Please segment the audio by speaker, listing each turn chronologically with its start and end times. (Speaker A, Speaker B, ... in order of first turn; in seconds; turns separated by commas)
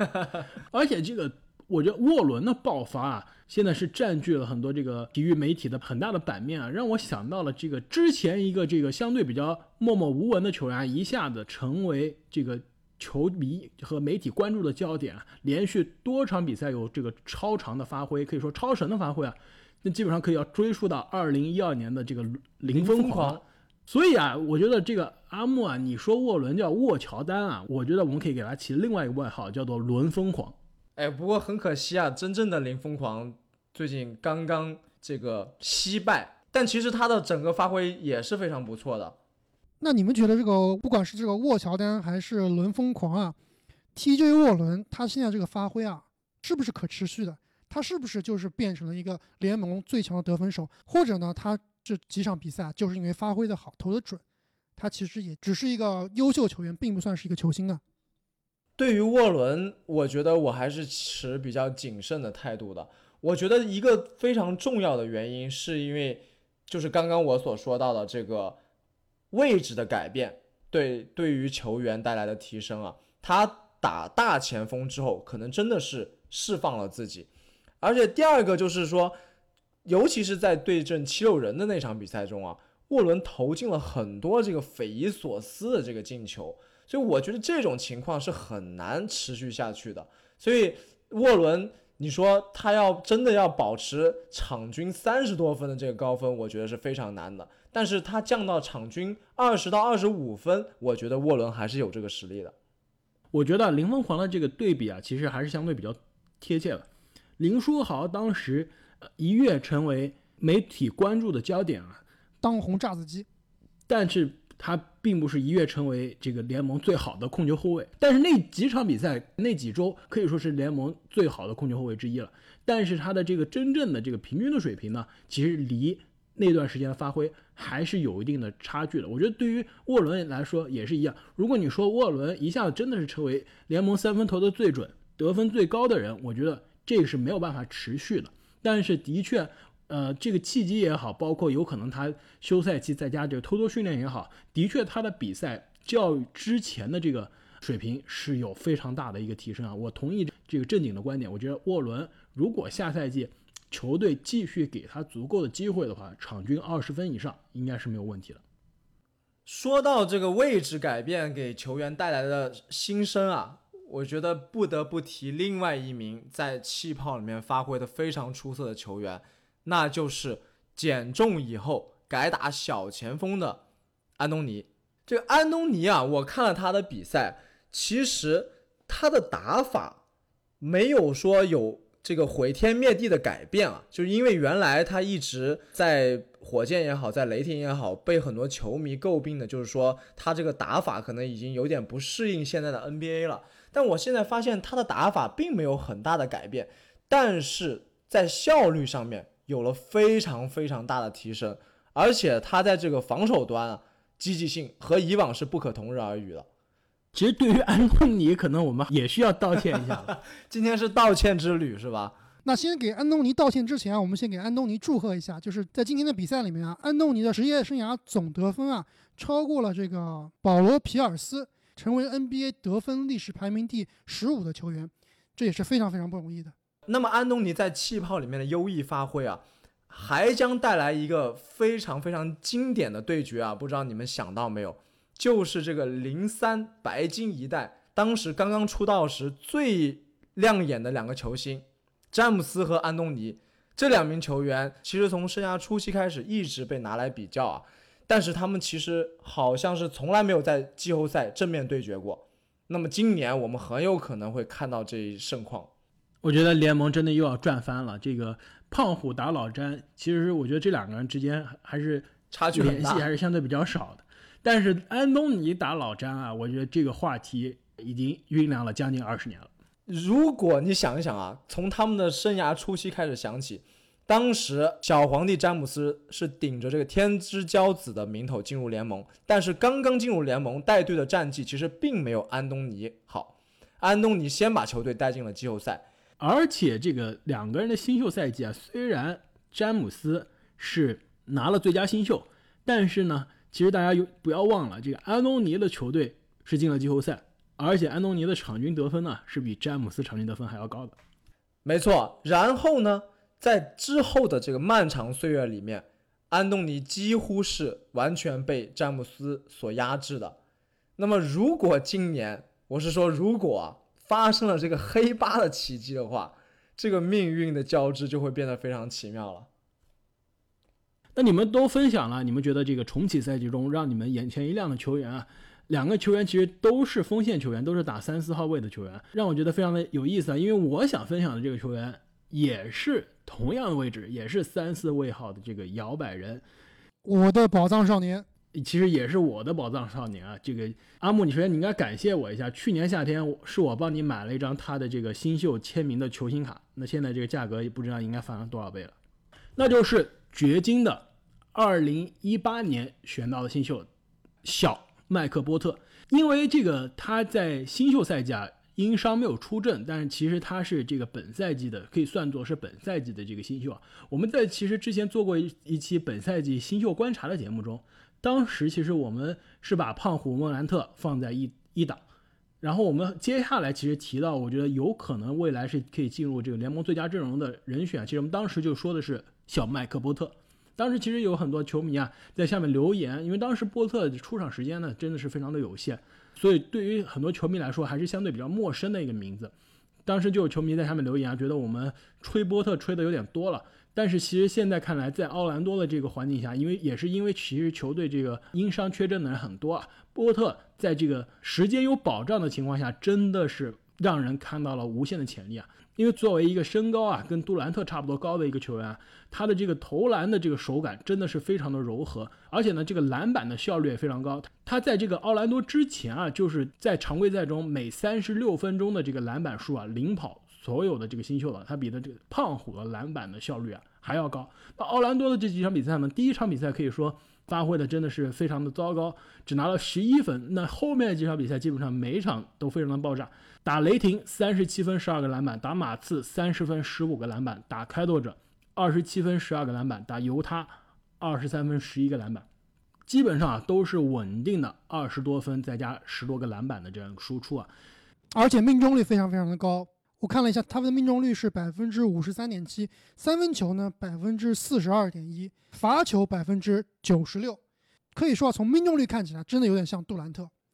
Speaker A: 0.7-30.5, Speaker B: 22.7-23.4, Speaker B: 31.0-39.1, Speaker C: 39.8-43.4, Speaker C: 43.9-54.2, Speaker C: 54.8-57.8, Speaker B: 58.8-68.6, Speaker B: 69.3-77.3, Speaker B: 77.8-79.1, Speaker B: 79.8-102.5, Speaker A: 103.3-106.8, Speaker A: 107.4-112.0, Speaker C: 112.4-113.2, Speaker A: 113.9-158.4, Speaker B: 159.4-173.6, Speaker B: 174.2-180.0, Speaker B: 180.6-206.4, Speaker A: 207.1-210.1, Speaker B: 210.2-212.1, Speaker C: 212.4-226.5, Speaker B: 226.9-255.7, Speaker A: 256.2-269.5, Speaker B: 262.3-263.1, Speaker B: 269.9-285.9, Speaker A: 286.2-301.0, Speaker B: 301.6-310.4, Speaker B: 311.0-319.5, Speaker A: 321.1-336.4, Speaker C: 337.0-338.2, Speaker A: 338.5-348.9, Speaker A: 349.6-353.9, Speaker A: 354.4-372.0, Speaker A: 372.6-389.5, Speaker A: 390.0-442.4, Speaker A: 443.1-447.7, Speaker C: 448.3-457.6, Speaker C: 458.1-460.5